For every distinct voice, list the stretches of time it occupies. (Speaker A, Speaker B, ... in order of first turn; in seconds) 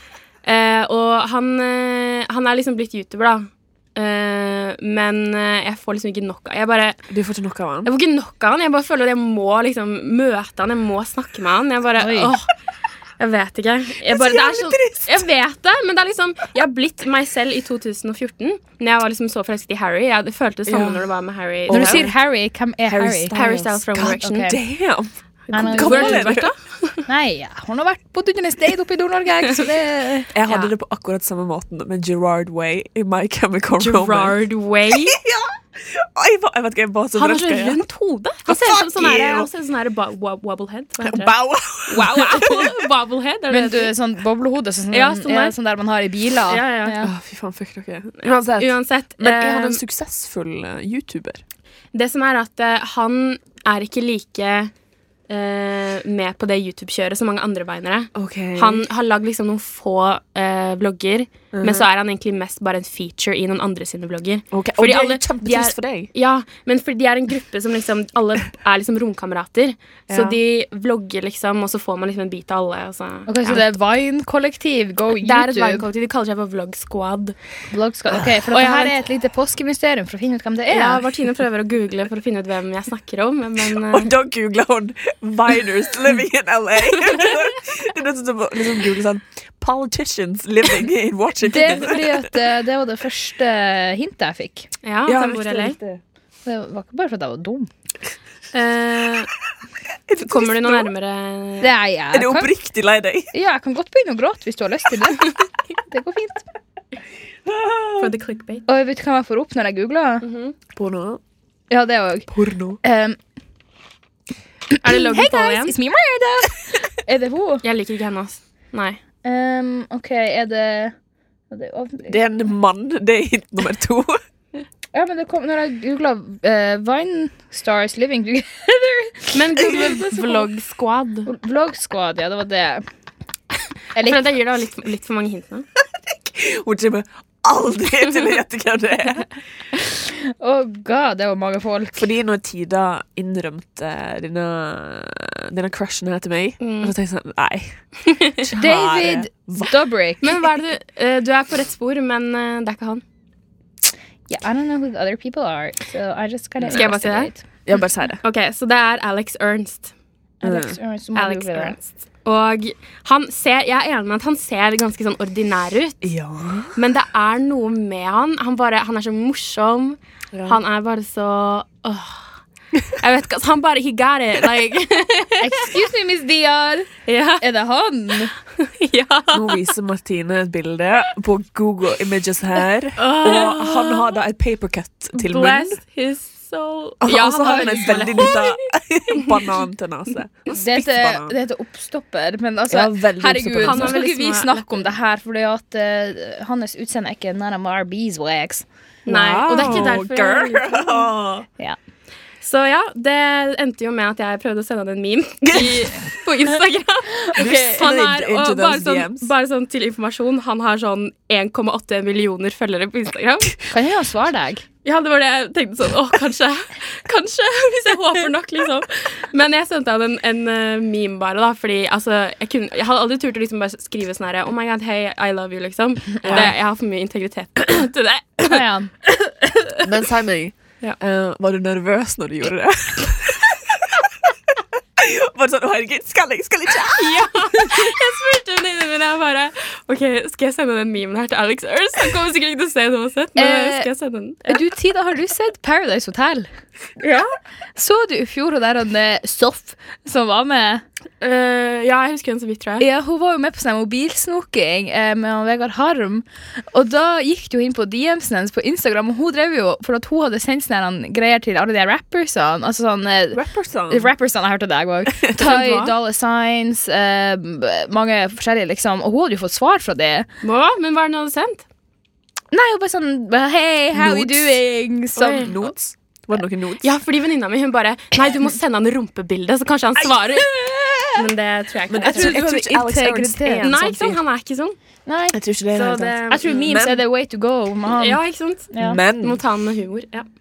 Speaker A: 0.4-7.0, 7.8-12.5, 13.2-22.1, 23.3-24.6, 25.5-27.0, 33.8-35.2, 37.1-41.3, 41.9-43.9, 44.9-45.5, 46.5-47.0, 48.2-49.8, 51.9-54.7, 55.3-73.7, 75.2-77.3, 78.5-78.9, 80.7-84.1, 94.8-95.8, 98.5-99.3, 100.2-101.7, 108.0-108.6, 110.2-110.5, 114.8-115.7, 117.6-119.0, 129.3-131.3, 134.0-135.7, 146.6-146.9, 148.0-148.4, 150.2-153.0, 156.7-157.3, 158.2-159.9, 161.1-166.1, 166.7-172.2, 173.0-175.8, 177.1-177.4, 178.6-179.6, 183.0-184.1, 185.1-188.6, 189.2-189.5, 193.6-194.9, 199.1-201.1, 202.4-213.6, 214.8-228.6, 236.9-244.6, 247.0-247.3, 251.2-252.8, 265.4-265.9, 270.4-271.6, 275.1-275.5, 276.8-280.5, 281.1-282.4, 283.6-284.8, 285.7-286.7, 287.9-290.3
Speaker B: 7.1-7.9, 14.0-15.3, 20.7-21.0, 21.7-22.2, 22.8-26.5, 30.3-34.4, 34.9-37.8, 38.5-39.5, 41.0-42.9, 47.0-51.4, 58.1-58.9, 61.5-61.9, 64.5-66.1, 70.1-70.4, 83.8-92.3, 95.0-96.0, 100.1-100.9, 102.1-103.3, 107.5-108.1, 110.7-111.2, 112.3-112.8, 122.1-124.2, 136.1-139.3, 141.9-147.8, 148.4-149.8, 156.6-156.8, 157.7-158.2, 160.4-160.8, 166.0-166.8, 170.3-170.6, 179.3-185.8, 187.0-191.3, 192.7-194.0, 199.1-201.4, 205.4-205.8, 207.3-209.3, 226.2-226.5, 229.8-234.1, 235.0-237.3, 263.3-264.1, 265.1-265.5, 273.9-274.6, 275.3-276.9, 280.0-281.2, 281.9-284.2, 285.3-287.0, 288.8-289.4
Speaker C: 12.0-12.3, 21.7-23.3, 24.2-24.5, 25.5-26.4, 27.1-30.3, 43.5-47.1, 73.3-75.8, 77.7-81.0, 91.4-94.7, 96.4-97.7, 101.6-102.5, 103.3-105.3, 105.9-106.4, 108.7-110.2, 111.7-112.3, 112.8-113.2, 114.7-117.6, 119.2-120.9, 121.5-122.2, 124.9-130.5, 131.2-132.8, 133.9-134.2, 140.2-141.9, 148.6-150.3, 154.3-157.4, 160.4-161.8, 175.4-178.3, 190.5-198.6, 207.2-207.8, 213.7-214.6, 228.5-229.5, 243.3-243.9, 244.5-246.5, 247.8-250.8, 252.8-270.2, 272.5-275.7, 282.0-283.7, 285.1-285.4, 286.3-288.2, 288.7-289.0